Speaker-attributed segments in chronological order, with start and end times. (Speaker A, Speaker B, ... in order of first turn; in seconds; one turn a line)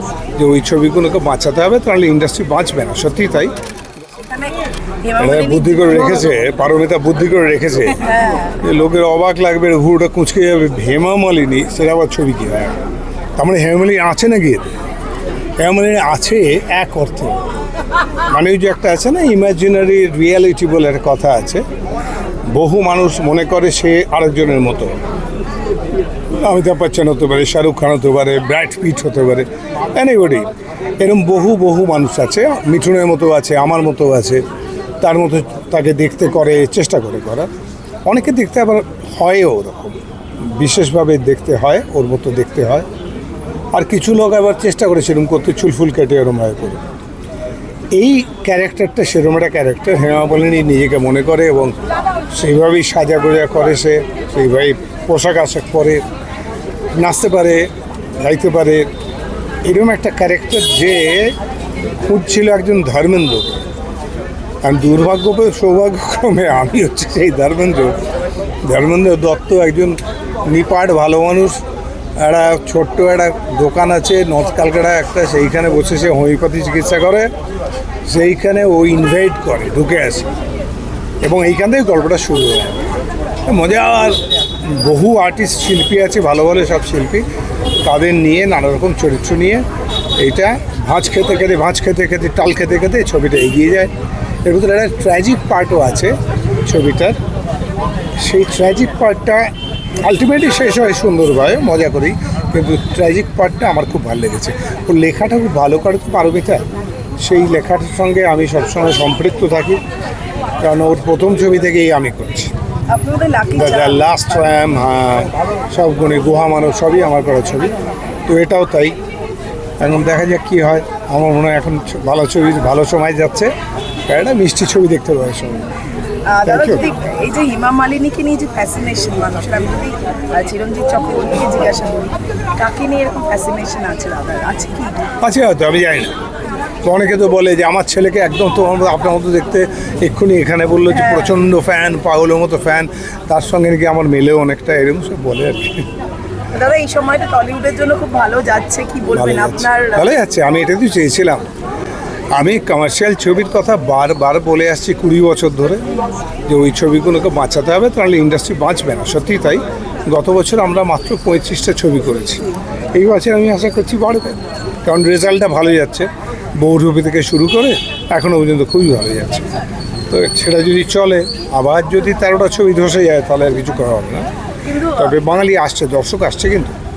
Speaker A: 0.3-3.5
Speaker B: 4.3-6.2
Speaker A: 5.2-12.8
Speaker B: 8.1-8.5
Speaker A: 13.4-14.7
Speaker A: 15.6-17.4
Speaker A: 18.3-21.6
Speaker A: 22.5-24.9
Speaker A: 26.4-30.5
Speaker A: 31.0-34.4
Speaker A: 35.0-37.5
Speaker A: 38.0-42.9
Speaker A: 43.7-46.8
Speaker A: 47.9-51.8
Speaker A: 52.3-56.0
Speaker A: 56.9-58.9
Speaker A: 59.6-61.4
Speaker A: 62.0-63.7
Speaker A: 64.6-68.0
Speaker A: 68.6-71.6
Speaker A: 72.2-77.3
Speaker A: 78.0-80.3
Speaker A: 81.2-82.8
Speaker A: 83.5-87.2
Speaker A: 87.8-89.7
Speaker A: 90.2-93.9
Speaker A: 94.4-97.2
Speaker A: 98.2-106.6
Speaker A: 107.2-109.8
Speaker A: 110.6-112.5
Speaker B: 112.9-114.0
Speaker A: 113.5-117.7
Speaker A: 118.3-119.0
Speaker A: 119.8-123.5
Speaker A: 124.1-125.7
Speaker B: 126.3-135.1
Speaker A: 126.5-126.9
Speaker A: 135.2-136.2
Speaker A: 136.8-145.8
Speaker B: 140.9-141.3
Speaker B: 146.5-150.2
Speaker A: 149.1-151.4
Speaker A: 152.3-155.8
Speaker A: 156.5-169.5
Speaker A: 170.1-174.3
Speaker B: 174.6-175.1
Speaker A: 174.9-176.8